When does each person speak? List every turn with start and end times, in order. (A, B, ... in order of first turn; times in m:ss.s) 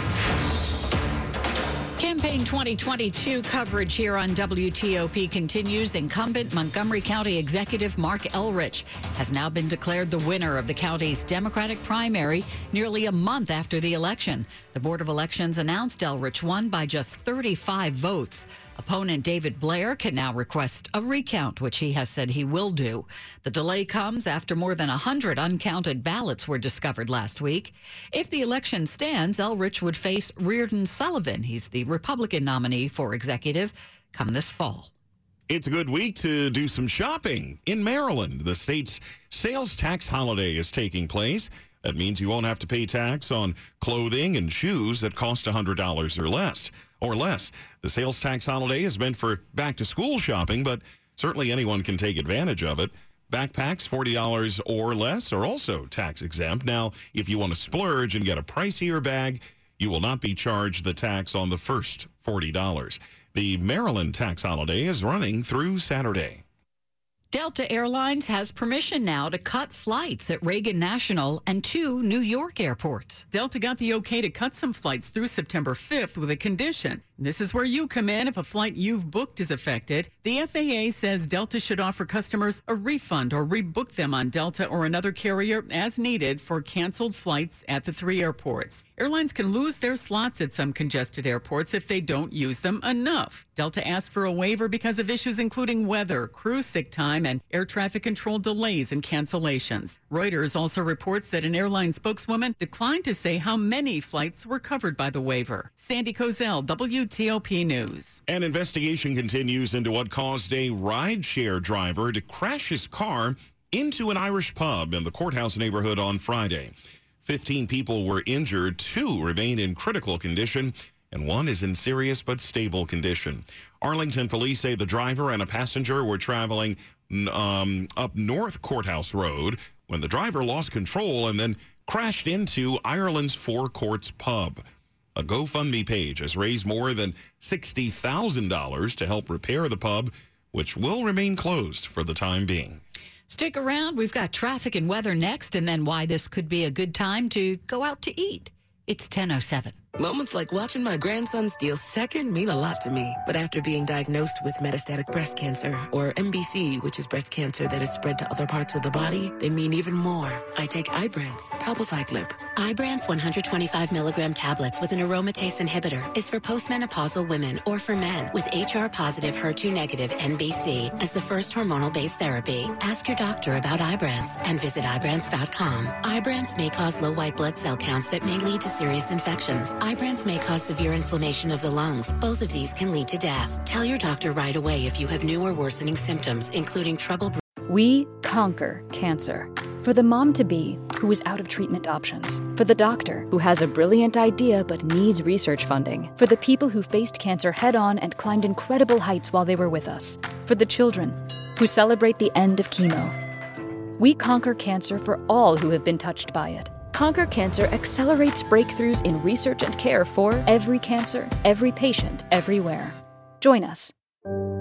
0:02.0-0:34.9 A
0:35.5-1:06.4 B
1:07.3-1:13.2 A
1:13.3-1:48.2 C
1:48.3-2:14.6 B
2:15.2-2:22.8 B
2:23.3-2:29.8 A
2:30.0-2:42.4 D
2:42.5-3:07.4 E
3:07.7-3:23.1 F
3:24.0-3:33.9 F